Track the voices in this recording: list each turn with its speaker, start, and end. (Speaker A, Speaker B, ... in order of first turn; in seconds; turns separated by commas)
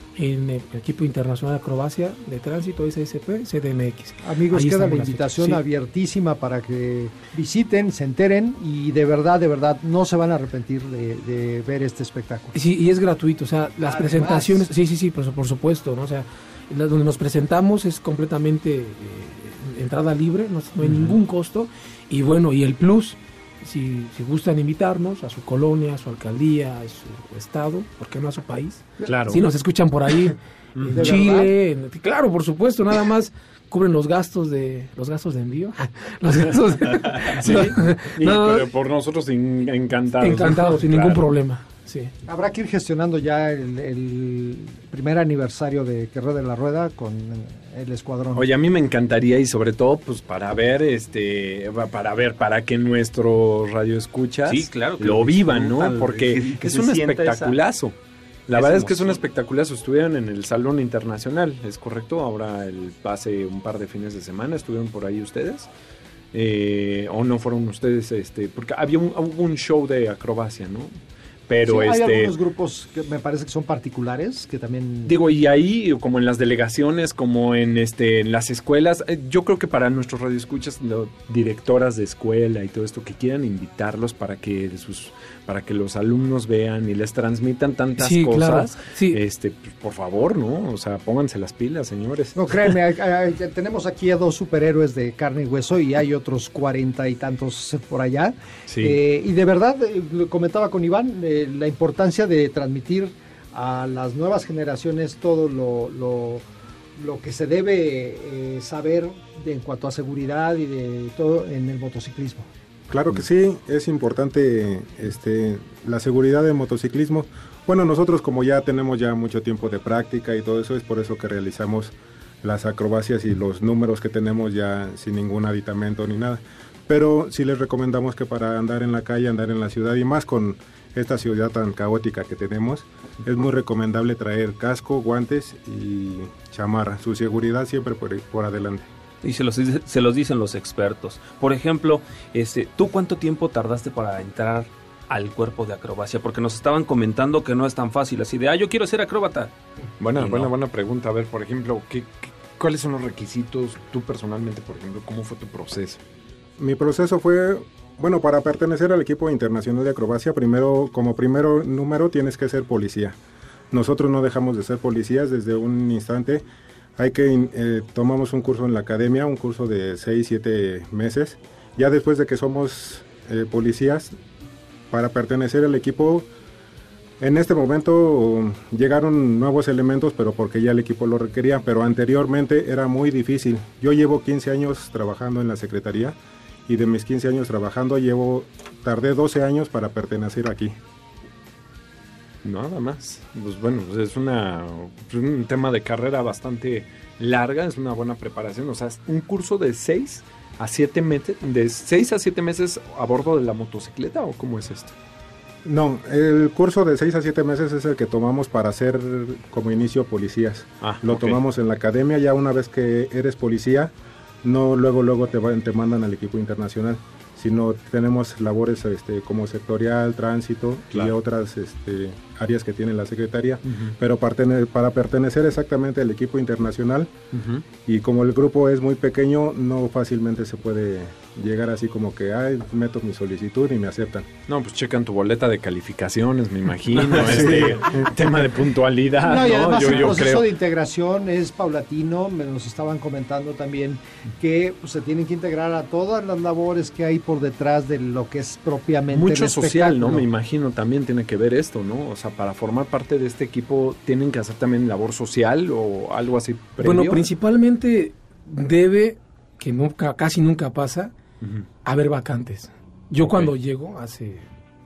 Speaker A: 0.2-5.6, Speaker B: 4.2-12.6, Speaker A: 12.5-38.7, Speaker B: 13.8-14.7, Speaker C: 20.8-21.2, Speaker C: 29.1-29.4, Speaker C: 30.8-31.2, Speaker B: 30.9-31.5, Speaker C: 36.9-41.3, Speaker A: 40.2-42.1, Speaker B: 42.3-48.5, Speaker C: 48.4-58.0, Speaker D: 54.5-57.6, Speaker C: 58.5-65.7, Speaker D: 58.5-59.2, Speaker C: 66.3-70.9, Speaker C: 71.5-72.4, Speaker B: 71.7-75.1, Speaker C: 75.1-92.7, Speaker A: 88.0-89.2, Speaker B: 92.3-106.4, Speaker C: 98.7-99.0, Speaker B: 107.0-112.5, Speaker E: 112.9-138.9, Speaker D: 139.2-149.5, Speaker C: 150.0-156.0, Speaker D: 150.2-150.5, Speaker E: 156.6-163.2, Speaker E: 163.7-166.4, Speaker E: 167.0-174.1, Speaker E: 174.9-176.3, Speaker E: 177.2-190.8, Speaker C: 192.4-204.9, Speaker E: 205.7-227.1, Speaker C: 210.8-211.4, Speaker C: 223.7-223.9, Speaker C: 227.3-227.6, Speaker E: 227.8-234.3, Speaker C: 234.5-240.5, Speaker E: 237.1-238.4, Speaker B: 239.1-250.3, Speaker C: 249.1-257.3, Speaker A: 256.8-261.1, Speaker A: 261.9-264.5, Speaker C: 263.2-263.5